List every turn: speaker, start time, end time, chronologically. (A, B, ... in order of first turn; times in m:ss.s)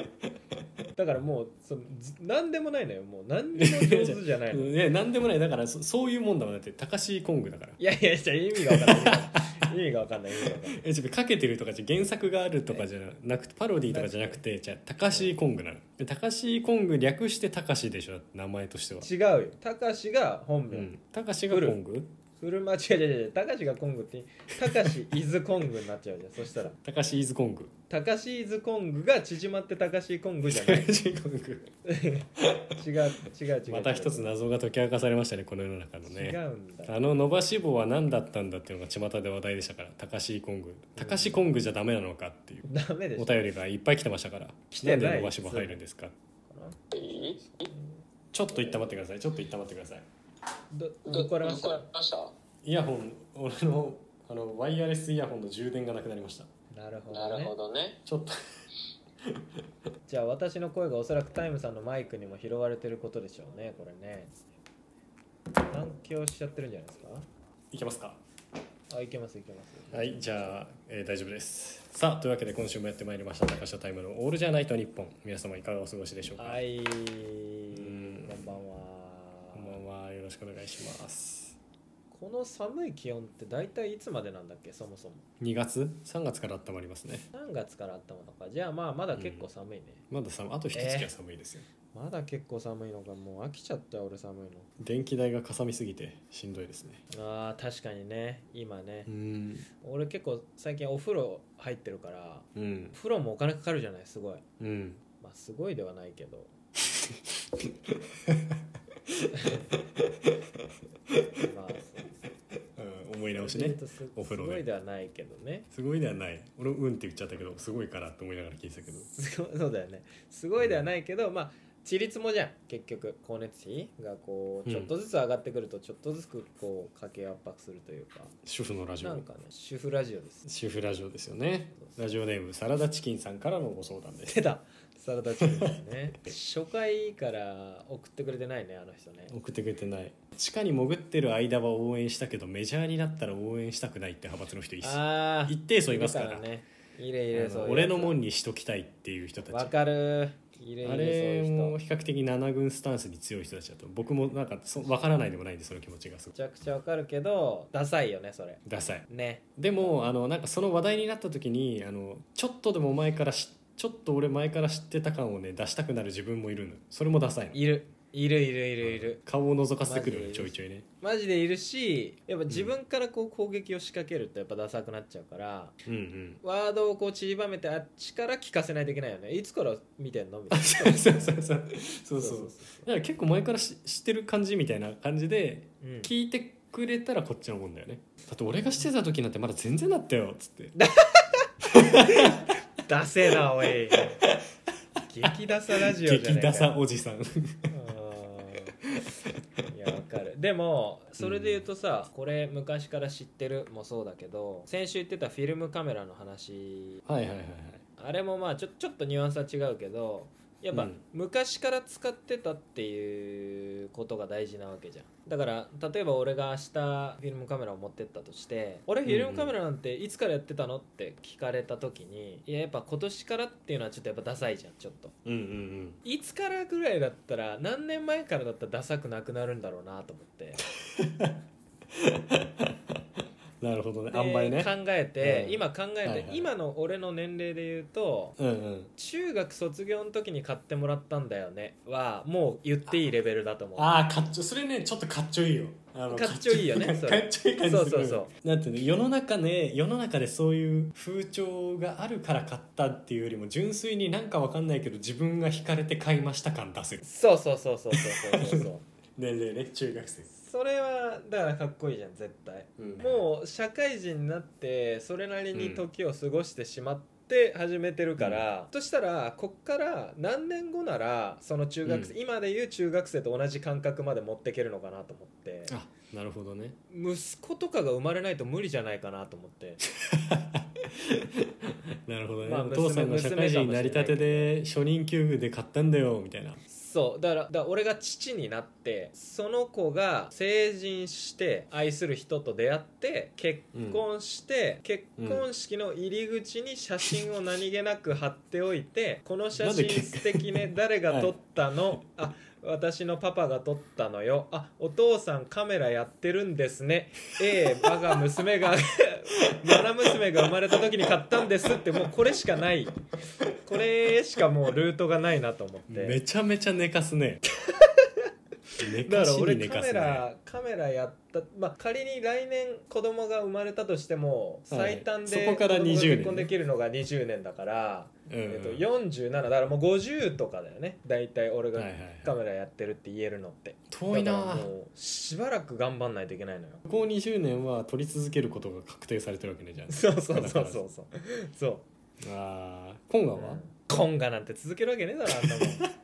0:01.0-0:04.8 A
0:03.6-0:07.8 B
0:07.8-0:10.8 A
0:08.6-0:09.6 B
0:10.5-0:19.1 B
0:13.9-0:14.4 A
0:15.1-0:15.4 A
0:19.0-0:21.0 A
0:20.7-0:22.2 B
0:21.5-0:21.8 A
0:22.4-0:26.8 A
0:26.8-0:27.7 B
0:27.9-0:30.9 A
0:30.4-0:31.7 B
0:31.9-0:34.3 A
0:32.4-0:32.7 B
0:33.7-0:46.2 B
0:36.1-0:37.0 A
0:41.0-0:41.5 A
0:42.7-0:43.4 A
0:44.7-0:45.8 A
0:46.5-0:48.0 A
0:47.0-0:47.4 C
0:48.3-0:50.1 B
0:50.7-0:51.9 A
0:51.2-0:52.3 C
0:52.6-0:56.5 B
0:56.7-0:57.6 A
0:57.1-0:58.0 C
0:58.0-0:58.3 B
1:00.1-1:04.3 A
1:05.7-1:07.3 A
1:07.7-1:08.2 B
1:08.9-1:10.5 A
1:09.9-1:16.6 B
1:16.4-1:19.8 A
1:17.7-1:18.4 B
1:19.5-1:21.6 B
1:22.1-1:25.2 A
1:25.4-1:27.3 B
1:27.3-1:30.0 A
1:29.1-1:29.5 B
1:30.1-1:31.7 B
1:30.7-1:31.1 A
1:31.9-1:34.7 A
1:34.8-1:37.0 B
1:37.1-1:39.1 A
1:39.1-1:39.7 B
1:39.8-1:44.4 A
1:42.6-1:43.0 B
1:44.6-1:45.0 B
1:45.2-1:46.5 A
1:48.3-1:48.5 B
1:51.4-1:52.3 A
1:52.8-1:54.7 B
1:53.4-1:55.7 A
1:55.7-1:59.1 B
1:59.1-2:08.4 A
2:04.7-2:04.9 B
2:08.4-2:09.3 B
2:09.0-2:10.4 A
2:10.4-2:14.4 B
2:14.3-2:19.3 A
2:19.3-2:26.5 B
2:24.8-2:28.2 A
2:27.3-2:29.7 B
2:29.5-2:31.8 A
2:30.8-2:36.3 B
2:36.3-2:40.0 A
2:38.7-2:47.6 B
2:47.5-2:49.2 A
2:48.8-2:50.9 B
2:49.8-2:55.8 A
2:55.9-2:56.4 B
2:56.4-3:01.3 A
3:00.5-3:10.8 B
3:02.2-3:02.9 A
3:05.8-3:06.1 A
3:08.6-3:08.9 A
3:10.8-3:11.5 A
3:11.7-3:12.5 B
3:12.0-3:14.2 A
3:13.9-3:14.4 B
3:15.1-3:16.8 A
3:15.2-3:17.7 B
3:17.7-3:18.8 A
3:19.7-3:27.0 A
3:21.2-3:21.7 B
3:27.0-3:27.8 B
3:28.0-3:45.2 A
3:30.7-3:31.0 B
3:39.0-3:39.6 B
3:45.2-3:46.0 B
3:46.0-3:50.6 A
3:50.6-3:51.4 B
3:51.9-3:52.7 B
3:53.6-3:56.5 B
3:54.1-3:58.4 A
3:58.4-3:58.9 B
3:59.0-4:04.0 A
4:03.8-4:17.0 B
4:06.1-4:08.3 A
4:17.0-4:18.8 A
4:17.9-4:20.3 B
4:20.3-4:35.7 A
4:22.8-4:23.2 B
4:25.5-4:25.9 B
4:28.2-4:28.4 B
4:31.8-4:32.2 B
4:35.7-4:36.8 B
4:36.9-4:39.8 A
4:40.1-4:46.6 B
4:42.4-4:44.6 A
4:46.7-5:13.0 A
4:53.7-4:54.0 B
4:55.2-4:55.5 B
4:59.6-5:01.4 B
5:07.5-5:07.8 B
5:09.4-5:09.8 B
5:13.6-5:16.2 A
5:15.9-5:17.4 B
5:17.7-5:18.3 A
5:18.8-5:20.3 B
5:19.0-5:36.9 A
5:24.7-5:26.5 B
5:28.3-5:28.8 B
5:31.7-5:32.3 B
5:33.9-5:34.7 B
5:36.9-5:40.8 B
5:39.9-5:41.8 A
5:42.2-5:43.6 B
5:43.4-5:45.8 A
5:45.5-5:45.9 B